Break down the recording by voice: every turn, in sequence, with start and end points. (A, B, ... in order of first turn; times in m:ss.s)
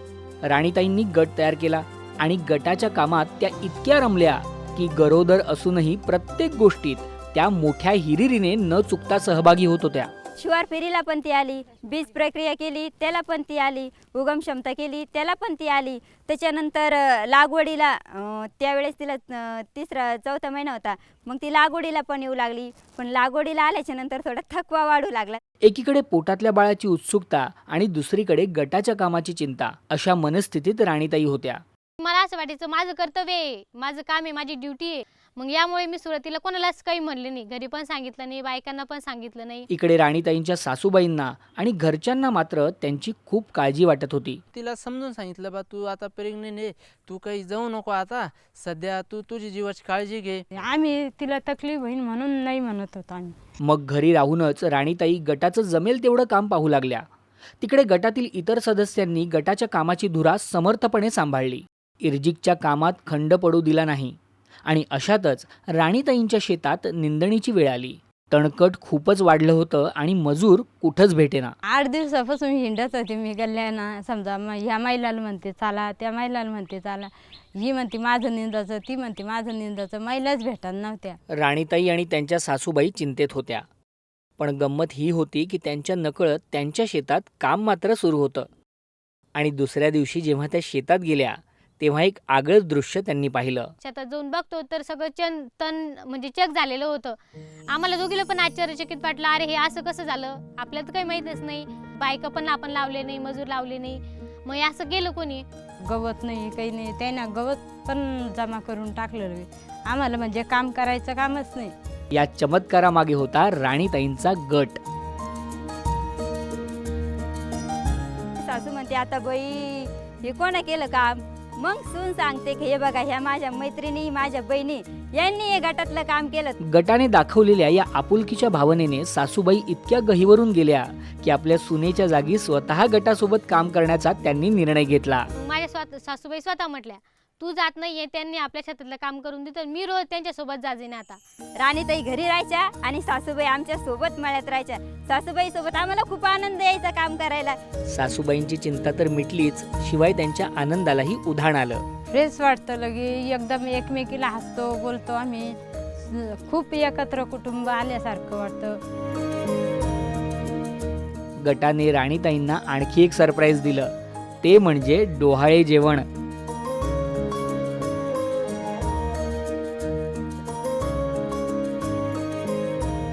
0:00.4-0:10.1 A
0:10.4-0:25.4 B
0:25.6-0:31.6 A
0:32.0-0:39.7 C
0:39.7-0:44.4 A
0:44.5-0:50.4 D
0:50.6-0:53.4 E
0:53.6-0:57.1 A
0:57.6-1:11.5 A
1:11.7-1:21.2 E
1:21.3-1:23.6 A
1:24.4-1:28.5 A
1:29.3-1:33.7 A
1:33.8-1:37.2 C
1:37.7-1:45.4 C
1:45.8-1:51.7 E
1:52.1-1:54.8 A
1:58.4-2:06.6 B
2:06.6-2:15.3 A
2:15.4-2:21.2 C
2:21.6-2:27.6 B
2:27.9-2:31.8 A
2:32.1-2:38.8 E
2:41.4-2:46.0 A